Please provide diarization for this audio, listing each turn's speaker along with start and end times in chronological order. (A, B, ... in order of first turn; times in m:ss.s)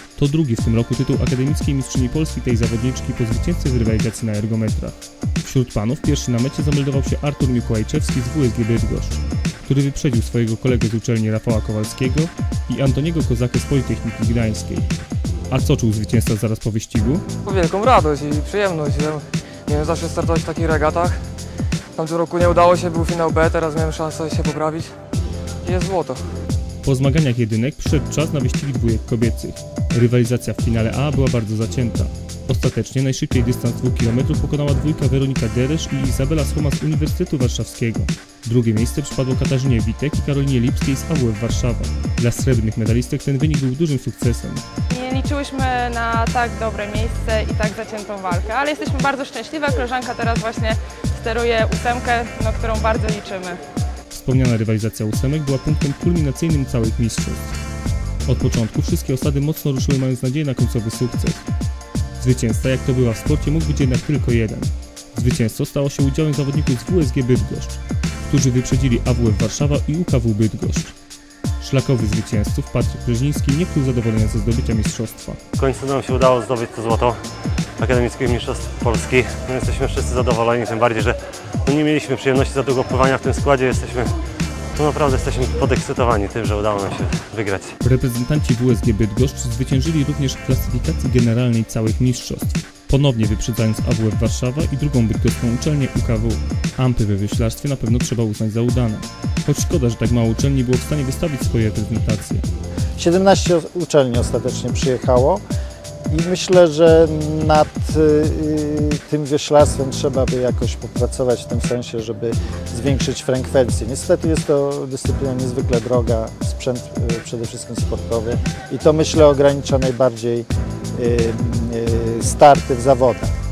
0:00.2-0:14.9 A
0:15.5-0:17.2 A
0:17.4-0:21.2 B
0:22.0-0:24.9 B
0:25.6-0:26.2 B
0:26.8-0:44.6 A
0:44.9-0:53.6 C
0:54.1-0:57.5 A
0:58.3-1:01.5 A
1:02.2-1:10.9 A
1:11.6-1:15.4 A
1:15.6-1:17.2 D
1:17.8-1:24.1 D
1:24.8-1:27.8 D
1:27.8-1:42.4 A
1:43.0-1:45.4 E
1:46.1-2:03.3 E